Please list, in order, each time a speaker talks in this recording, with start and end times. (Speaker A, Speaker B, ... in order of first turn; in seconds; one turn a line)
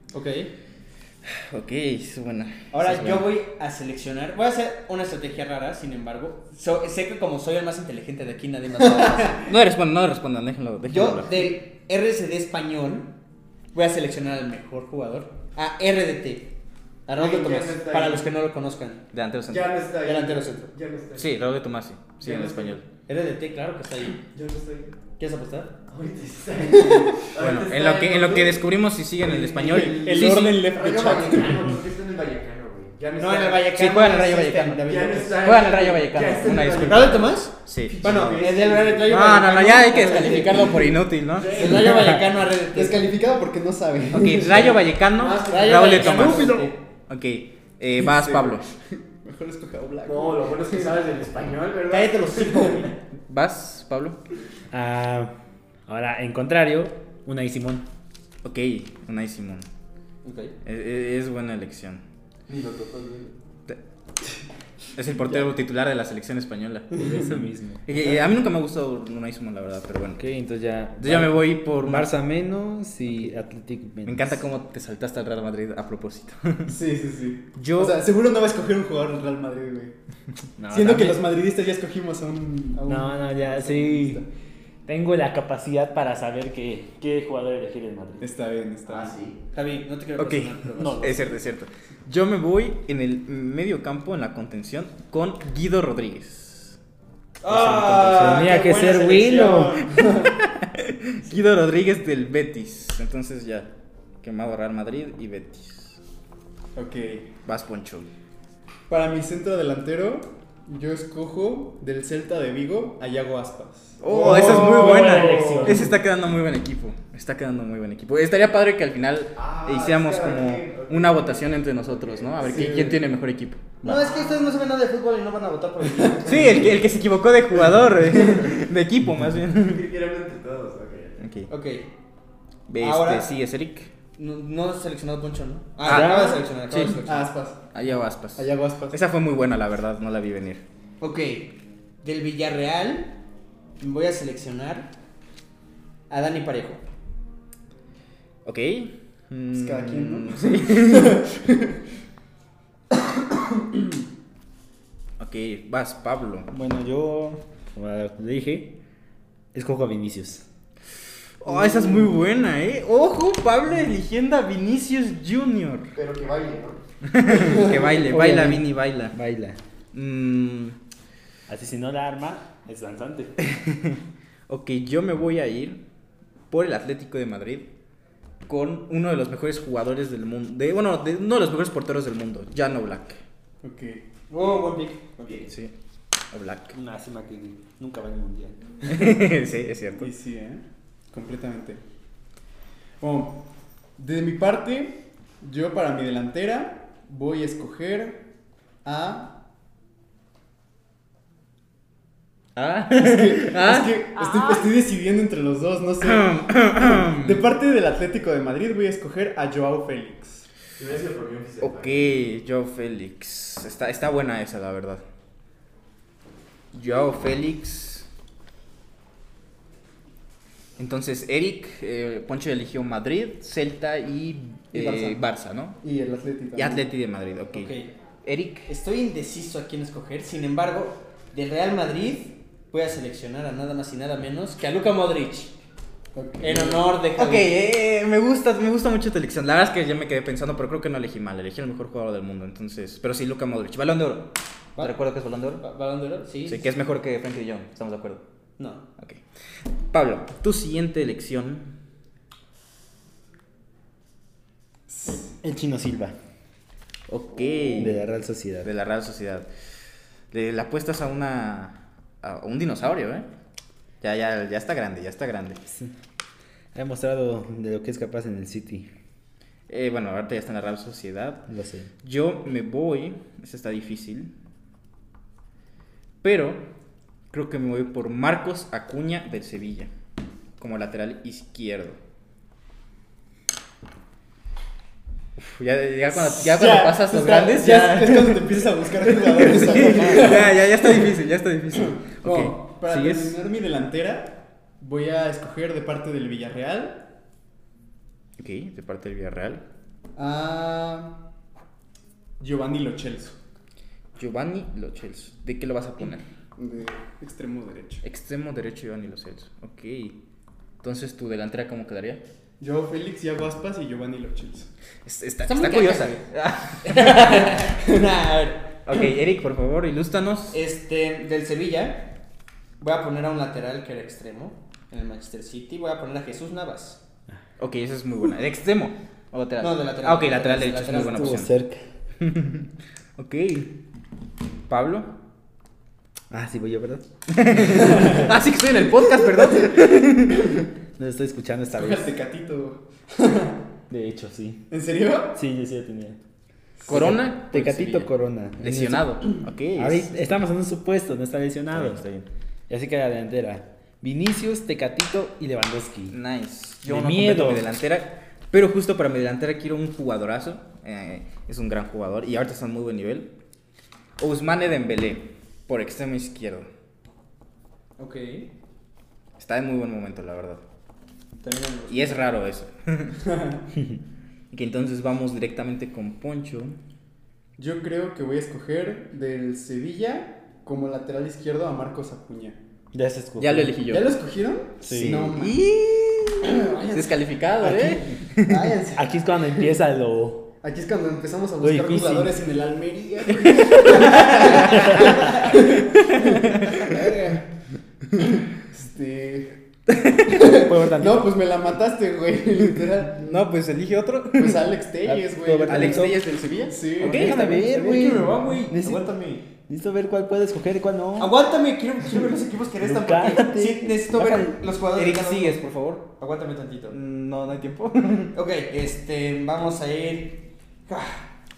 Speaker A: 0.1-0.5
Speaker B: 1.4-3.3
Speaker A: 2.7-9.4
Speaker B: 9.3-11.5
Speaker A: 10.9-13.1
Speaker A: 13.7-16.5
Speaker A: 17.1-19.0
Speaker C: 17.1-18.3
Speaker B: 19.1-19.8
Speaker C: 19.5-21.4
Speaker A: 20.0-20.7
Speaker B: 21.1-22.8
Speaker C: 22.2-22.8
Speaker A: 23.1-24.2
Speaker C: 24.2-24.9
Speaker A: 25.2-25.8
Speaker C: 25.9-28.6
Speaker D: 26.7-27.1
Speaker B: 27.2-30.7
Speaker C: 29.2-33.7
Speaker D: 29.6-31.6
Speaker A: 30.2-30.5
Speaker A: 33.1-35.4
Speaker B: 33.7-38.4
Speaker C: 34.8-37.3
Speaker A: 36.8-40.8
Speaker C: 37.9-39.1
Speaker D: 38.0-39.0
Speaker B: 39.0-42.2
Speaker C: 41.4-41.9
Speaker A: 41.5-43.0
Speaker D: 42.7-45.8
Speaker B: 44.1-48.6
Speaker C: 45.2-45.8
Speaker A: 45.4-46.8
Speaker E: 45.9-46.7
Speaker D: 48.0-51.0
Speaker C: 50.0-52.9
Speaker A: 51.9-52.9
Speaker B: 53.3-54.2
Speaker E: 54.7-55.3
Speaker E: 55.9-57.8
Speaker B: 58.4-59.7
Speaker A: 60.2-60.5
Speaker B: 60.6-62.0
Speaker C: 62.5-63.4
Speaker B: 64.9-67.0
Speaker D: 67.0-67.4
Speaker E: 67.0-67.8
Speaker B: 67.8-70.2
Speaker E: 70.2-74.4
Speaker B: 71.0-72.1
Speaker B: 74.0-76.8
Speaker D: 76.7-79.9
Speaker B: 77.5-78.0
Speaker E: 80.6-81.2
Speaker D: 80.7-84.3
Speaker E: 82.9-84.2
Speaker E: 84.8-88.3
Speaker D: 88.2-89.2
Speaker C: 88.9-89.4
Speaker A: 89.5-91.2
Speaker B: 90.2-96.8
Speaker E: 90.8-91.1
Speaker A: 97.4-99.5
Speaker E: 97.5-99.8
Speaker D: 98.3-100.3
Speaker B: 99.8-103.7
Speaker B: 104.2-106.0
Speaker D: 106.7-107.3
Speaker B: 107.4-108.1
Speaker D: 108.9-115.9
Speaker B: 114.0-124.0
Speaker E: 114.1-115.9
Speaker C: 119.3-122.9
Speaker D: 122.4-123.0
Speaker A: 123.8-126.7
Speaker B: 126.2-129.9
Speaker C: 129.6-131.2
Speaker B: 131.2-131.5
Speaker A: 131.5-131.9
Speaker B: 132.7-133.9
Speaker A: 132.8-133.3
Speaker A: 134.2-137.2
Speaker B: 135.8-137.0
Speaker E: 135.8-136.4
Speaker D: 136.8-137.7
Speaker B: 137.7-140.6
Speaker D: 138.3-139.0
Speaker A: 141.0-143.1
Speaker A: 143.8-144.9
Speaker A: 146.1-146.8
Speaker B: 148.4-151.2
Speaker D: 149.5-151.8
Speaker D: 152.9-154.0
Speaker B: 155.2-156.5
Speaker E: 156.5-158.7
Speaker E: 159.5-160.4
Speaker B: 161.4-165.9
Speaker D: 161.5-162.2
Speaker C: 165.9-166.8
Speaker B: 167.1-169.2
Speaker D: 167.3-167.9
Speaker E: 167.9-169.6
Speaker B: 169.9-170.8
Speaker E: 171.5-173.3
Speaker B: 173.4-175.8
Speaker B: 176.5-177.7
Speaker B: 178.5-183.2
Speaker D: 183.6-184.0
Speaker A: 184.3-185.5
Speaker B: 185.4-185.7
Speaker B: 186.3-186.7
Speaker E: 186.7-189.1
Speaker B: 188.9-190.1
Speaker D: 189.9-191.8
Speaker D: 193.0-193.4
Speaker D: 194.0-198.2
Speaker D: 198.8-199.3
Speaker B: 202.6-203.9
Speaker D: 203.0-210.4
Speaker E: 204.2-204.6
Speaker B: 206.0-207.4
Speaker C: 210.8-212.0
Speaker B: 211.6-215.0
Speaker B: 216.7-218.1
Speaker B: 220.8-225.8
Speaker D: 224.7-225.2
Speaker D: 225.8-226.8
Speaker B: 226.6-227.7
Speaker A: 227.5-227.9
Speaker B: 228.2-228.7
Speaker A: 228.7-235.5
Speaker D: 236.1-236.8
Speaker A: 236.4-237.5
Speaker B: 237.2-245.6
Speaker A: 245.6-246.7
Speaker B: 246.4-248.2
Speaker A: 248.6-248.8
Speaker B: 249.9-251.7
Speaker D: 254.9-255.3
Speaker E: 255.4-256.1
Speaker B: 257.1-258.0
Speaker E: 257.8-258.7
Speaker B: 258.6-259.5
Speaker B: 260.3-263.2
Speaker B: 264.0-265.6
Speaker E: 265.7-265.9
Speaker E: 266.7-268.9
Speaker B: 269.7-271.4
Speaker E: 271.5-271.9
Speaker B: 272.0-274.3
Speaker B: 276.2-276.6
Speaker B: 277.3-279.9
Speaker B: 280.6-282.0
Speaker B: 285.4-293.4
Speaker D: 286.1-291.1
Speaker D: 291.8-297.0
Speaker B: 298.4-299.6
Speaker D: 300.2-301.2
Speaker D: 302.4-303.4
Speaker B: 304.2-306.2
Speaker D: 306.6-308.0
Speaker B: 308.0-310.1
Speaker B: 310.8-312.2
Speaker D: 312.6-314.7
Speaker B: 315.0-317.6
Speaker A: 315.5-316.2
Speaker A: 316.8-318.6
Speaker B: 318.9-320.6
Speaker A: 320.5-322.1
Speaker A: 322.8-327.0
Speaker B: 327.6-331.5
Speaker A: 329.6-331.4
Speaker E: 330.9-331.8
Speaker B: 332.2-333.7
Speaker B: 334.7-335.1
Speaker E: 336.3-337.0
Speaker B: 337.3-340.6
Speaker E: 337.5-338.3
Speaker E: 341.0-342.1
Speaker D: 341.7-343.6
Speaker E: 343.9-344.6
Speaker D: 344.7-345.4
Speaker E: 345.3-346.2
Speaker B: 346.9-348.1
Speaker E: 346.9-352.1
Speaker B: 348.6-350.3
Speaker B: 351.7-352.2
Speaker E: 352.7-356.1
Speaker B: 356.1-363.3
Speaker E: 356.8-357.6
Speaker B: 364.2-366.7
Speaker A: 368.0-368.5
Speaker B: 369.4-370.6
Speaker A: 371.4-372.3
Speaker B: 371.9-373.2
Speaker D: 373.2-373.6
Speaker B: 374.5-376.7
Speaker D: 377.6-382.6
Speaker E: 382.9-383.7
Speaker B: 383.4-384.1
Speaker D: 383.9-385.6
Speaker E: 384.8-385.2
Speaker B: 384.9-388.7
Speaker D: 386.5-387.0
Speaker D: 388.4-389.6
Speaker E: 388.9-390.4
Speaker D: 390.6-397.5
Speaker E: 391.6-392.3
Speaker B: 393.4-396.9
Speaker E: 394.7-395.1
Speaker D: 398.1-399.6
Speaker B: 399.9-400.4
Speaker D: 400.3-403.4
Speaker E: 400.4-401.3
Speaker B: 403.2-404.7
Speaker D: 404.3-407.4
Speaker E: 405.0-406.2
Speaker B: 405.6-407.7
Speaker E: 407.0-409.0
Speaker A: 407.2-409.4
Speaker E: 409.7-411.3
Speaker A: 411.2-416.9
Speaker E: 412.8-414.6
Speaker B: 414.9-416.1
Speaker B: 416.9-418.3
Speaker A: 418.3-421.2